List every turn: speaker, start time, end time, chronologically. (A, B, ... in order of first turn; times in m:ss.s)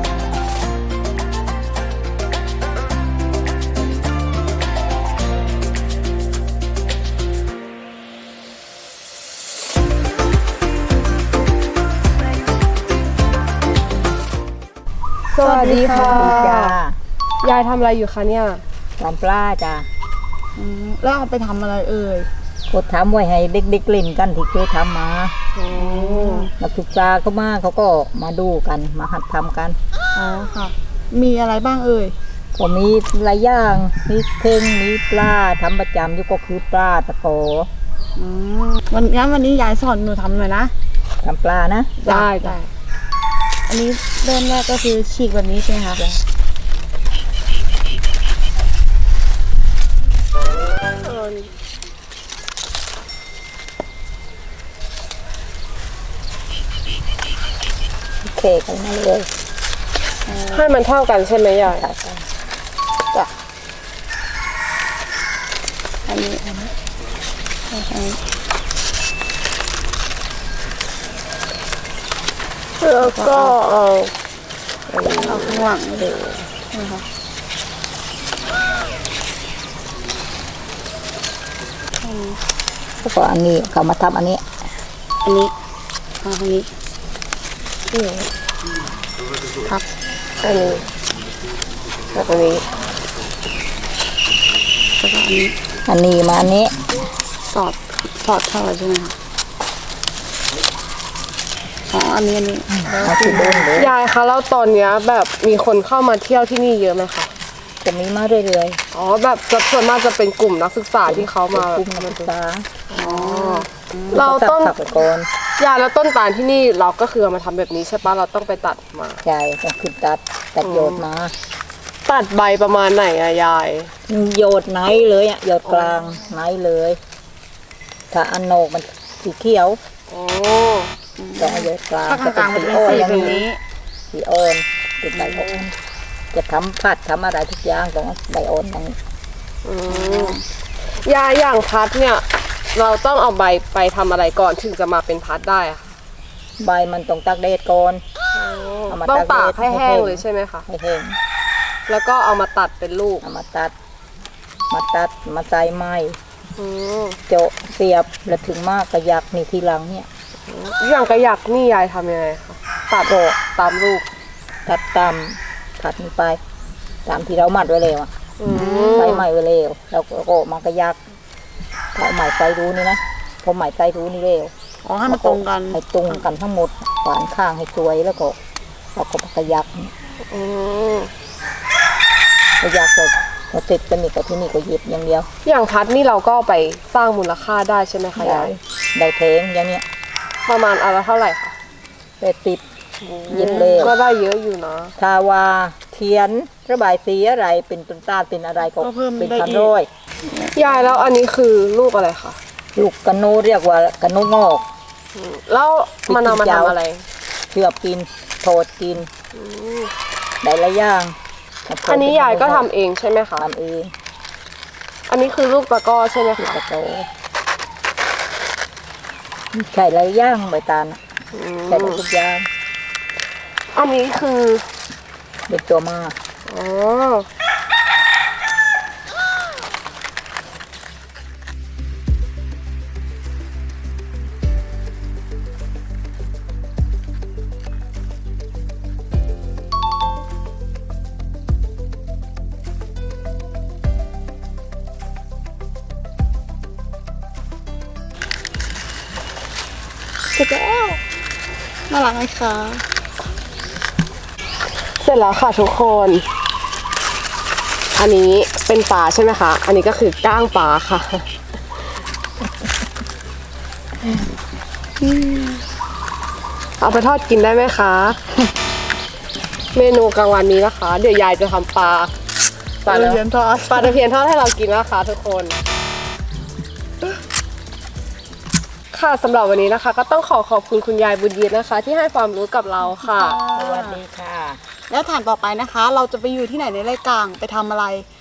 0:15.3-0:16.8 A
0:15.4-0:16.6 B
0:15.9-0:17.0 C
0:17.4-0:18.6 A
0:19.0-0:19.9 C
0:20.6-0:22.3 B
0:22.7-0:25.3 C
0:25.6-0:26.5 A
0:25.8-0:26.5 B
0:26.6-0:29.8 C
0:30.2-0:32.2 B
0:32.6-0:37.7 C
0:38.2-0:40.7 B
0:41.2-0:41.9 C
0:42.0-0:42.7 B
0:42.1-0:42.6 A
0:43.7-0:46.0 B
0:51.0-0:51.5 A
0:58.2-0:59.3 C
1:00.3-1:00.7 B
1:00.4-1:01.9 A
1:01.7-1:02.2 C
1:06.1-1:06.4 B
1:07.7-1:08.2 B
1:12.8-1:14.1 A
1:13.0-1:13.6 B
1:14.9-1:16.5 C
1:15.2-1:16.1 B
1:16.7-1:17.0 B
1:22.0-1:22.4 B
1:23.0-1:24.4 C
1:25.2-1:25.5 B
1:26.2-1:26.7 B
1:27.9-1:28.2 A
1:30.4-1:30.8 A
1:35.0-1:35.6 B
1:35.9-1:36.7 C
1:37.5-1:39.2 B
1:41.9-1:43.7 B
1:42.9-1:43.9 C
1:43.8-1:47.3 A
1:47.8-1:48.8 C
1:48.9-1:52.3 A
1:51.1-1:52.7 C
1:52.9-1:54.8 A
1:53.0-1:54.2 B
1:54.1-1:55.3 C
1:55.6-1:59.2 A
1:59.2-2:01.3 C
2:00.6-2:01.0 A
2:02.0-2:03.9 A
2:04.1-2:07.0 C
2:08.1-2:09.8 C
2:10.1-2:10.9 A
2:11.2-2:13.6 B
2:11.4-2:13.4 C
2:14.1-2:15.7 C
2:16.3-2:19.0 C
2:19.6-2:20.4 A
2:19.9-2:20.4 B
2:21.0-2:25.9 A
2:26.6-2:28.0 C
2:28.3-2:30.7 A
2:28.9-2:31.2 C
2:31.9-2:33.2 A
2:33.2-2:33.7 C
2:34.7-2:36.2 C
2:36.6-2:37.2 A
2:37.3-2:40.1 C
2:40.5-2:44.1 A
2:43.1-2:43.4 C
2:44.7-2:46.4 C
2:47.1-2:48.1 C
2:48.4-2:49.3 A
2:48.5-2:49.1 B
2:48.9-2:51.0 C
2:52.0-2:54.5 C
2:54.8-2:56.2 B
2:55.1-2:58.4 C
2:59.0-2:59.9 C
3:00.3-3:01.1 A
3:02.6-3:05.3 C
3:05.4-3:08.6 A
3:08.2-3:09.8 C
3:10.5-3:11.6 A
3:12.2-3:12.6 C
3:13.0-3:15.0 A
3:13.3-3:14.0 C
3:15.0-3:19.9 C
3:18.8-3:19.8 B
3:20.3-3:21.1 B
3:20.5-3:22.4 A
3:22.8-3:24.7 C
3:25.1-3:27.0 A
3:26.1-3:26.8 C
3:27.5-3:29.1 C
3:29.3-3:29.9 A
3:30.4-3:31.2 C
3:31.7-3:32.7 C
3:31.8-3:33.5 A
3:33.4-3:33.9 C
3:35.1-3:36.6 A
3:36.4-3:37.1 C
3:39.5-3:41.0 C
3:41.3-3:42.0 A
3:41.7-3:42.5 C
3:43.7-3:44.6 A
3:45.5-3:46.2 C
3:46.5-3:47.3 A
4:10.4-4:11.0 B
4:11.9-4:12.8 B
4:15.0-4:16.2 A
4:17.9-4:21.3 A
4:25.0-4:25.6 B
4:26.8-4:28.2 A
4:29.7-4:32.1 A
4:32.8-4:35.6 A
4:32.9-4:34.0 B
4:38.9-4:43.4 A
4:42.9-4:44.0 B
4:43.5-4:44.6 C
4:44.9-4:48.1 B